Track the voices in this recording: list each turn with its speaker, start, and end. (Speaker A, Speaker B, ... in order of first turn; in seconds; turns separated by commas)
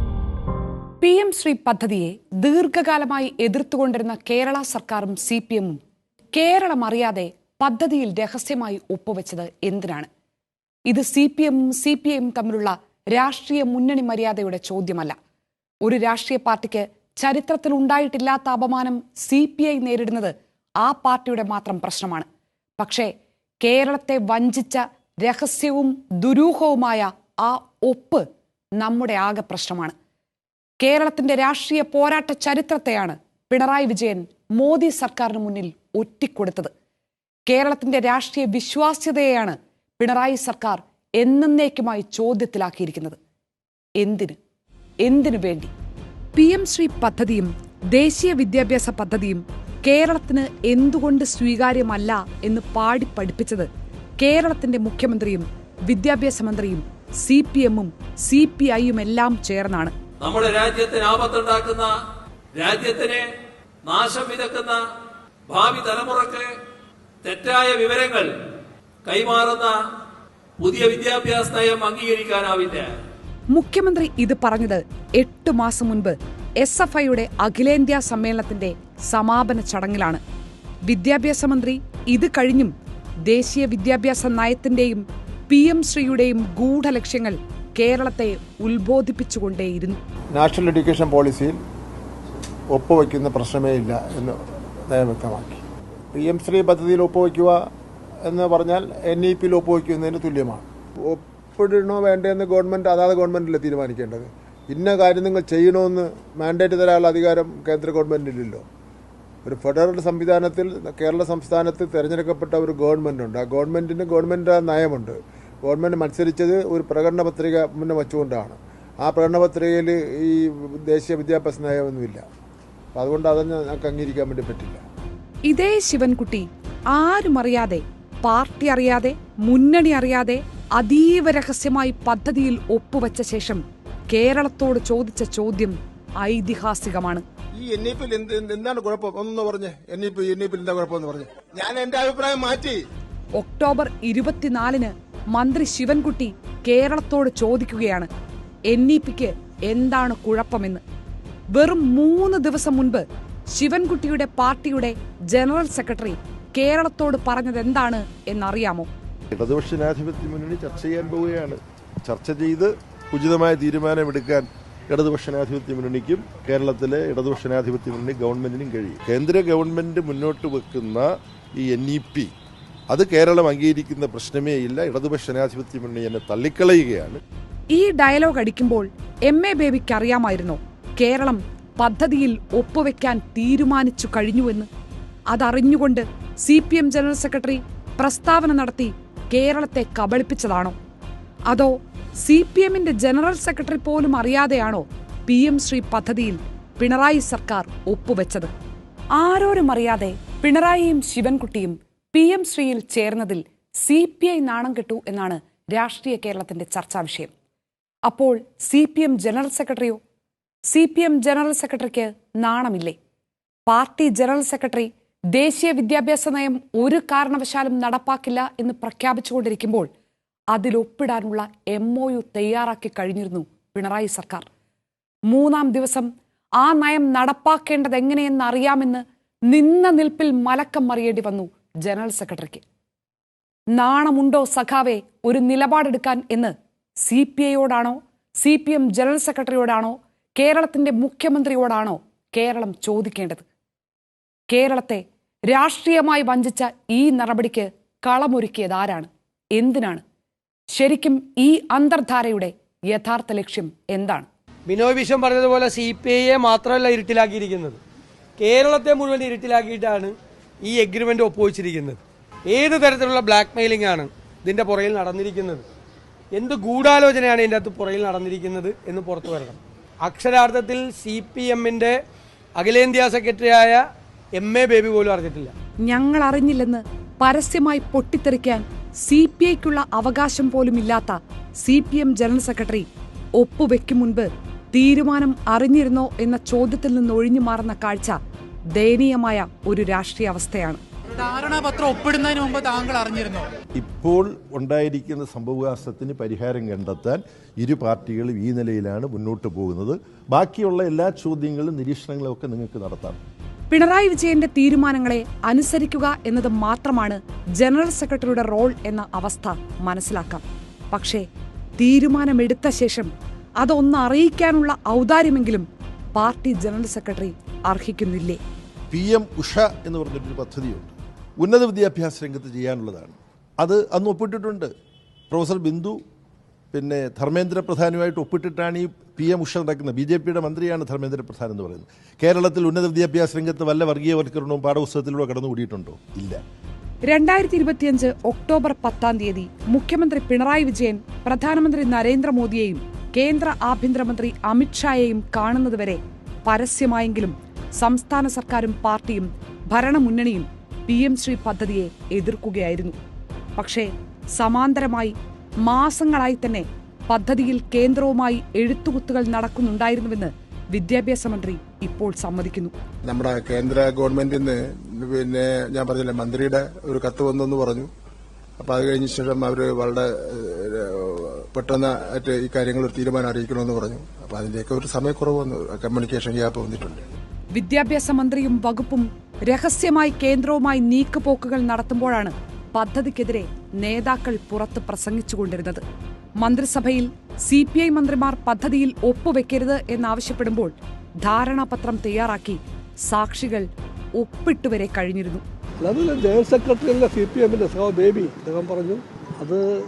Speaker A: 1.0-5.8, Speaker A: 6.3-10.1, Speaker A: 10.9-15.2, Speaker A: 15.8-22.3, Speaker A: 22.8-23.1, Speaker A: 23.6-28.3, Speaker A: 28.8-29.9, Speaker A: 30.8-36.7, Speaker A: 37.5-43.2, Speaker A: 44.0-44.4, Speaker A: 45.0-45.7, Speaker A: 46.4-59.9, Speaker B: 60.2-61.9, Speaker B: 62.5-63.2, Speaker B: 63.8-64.8, Speaker B: 65.5-66.5, Speaker B: 67.2-68.3, Speaker B: 69.0-69.8, Speaker B: 70.6-73.0, Speaker A: 73.5-80.2, Speaker A: 80.9-82.7, Speaker A: 83.3-90.0, Speaker C: 90.3-91.6, Speaker C: 92.7-97.7, Speaker C: 98.2-108.6, Speaker C: 109.4-122.2, Speaker C: 122.9-124.8, Speaker A: 125.5-137.2, Speaker C: 137.6-142.8, Speaker A: 143.4-148.1, Speaker A: 148.7-150.8, Speaker A: 151.5-158.9, Speaker D: 159.3-172.3, Speaker D: 172.9-177.2, Speaker A: 177.7-184.7, Speaker A: 185.3-190.8, Speaker A: 191.5-198.5, Speaker A: 199.2-207.3, Speaker A: 208.1-210.0, Speaker A: 210.7-213.0, Speaker A: 213.7-219.9, Speaker A: 220.5-224.5, Speaker A: 225.3-232.6, Speaker A: 233.7-243.4, Speaker A: 244.5-250.0, Speaker A: 250.7-254.3, Speaker E: 254.7-257.8, Speaker E: 258.4-260.1, Speaker E: 260.6-265.6, Speaker E: 266.3-272.0, Speaker E: 272.6-273.8, Speaker E: 274.4-275.5, Speaker A: 275.9-282.9, Speaker A: 283.4-288.2, Speaker A: 288.8-290.8, Speaker F: 291.2-293.4, Speaker D: 293.8-303.2, Speaker A: 303.7-311.3, Speaker A: 311.8-318.4, Speaker D: 318.9-324.7, Speaker D: 325.3-326.0, Speaker D: 326.7-336.4, Speaker A: 337.1-353.0, Speaker A: 353.6-362.7, Speaker C: 363.1-367.9, Speaker C: 368.6-377.0, Speaker A: 377.5-385.8, Speaker A: 386.4-395.4, Speaker G: 395.8-399.6